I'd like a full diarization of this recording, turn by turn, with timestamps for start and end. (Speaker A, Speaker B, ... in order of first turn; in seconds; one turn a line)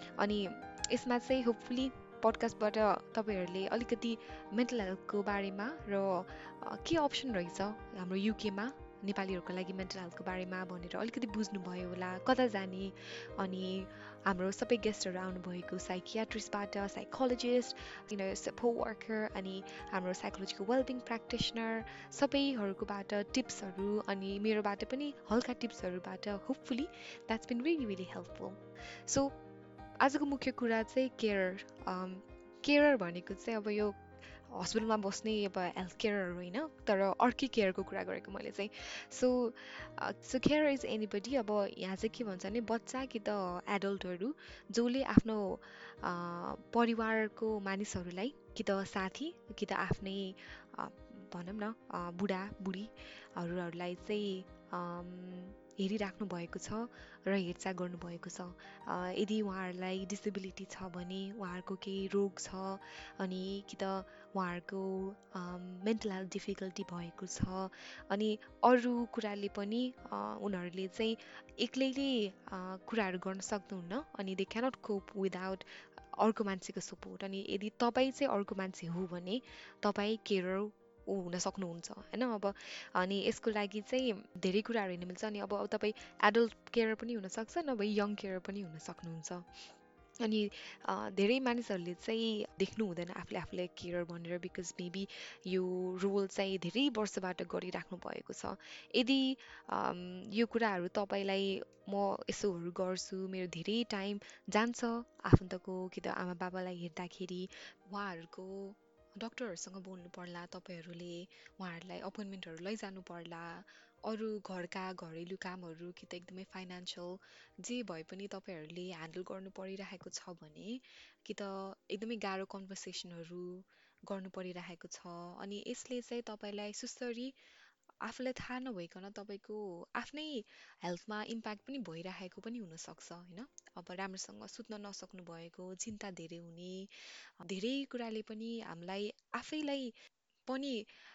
Speaker A: 0.2-29.3
Speaker A: 30.0-34.0
Speaker A: 34.5-75.7
Speaker A: 76.2-89.5
Speaker A: 90.2-120.8
Speaker A: 121.3-127.3
Speaker A: 128.1-136.9
Speaker A: 137.4-139.9
Speaker A: 140.5-140.9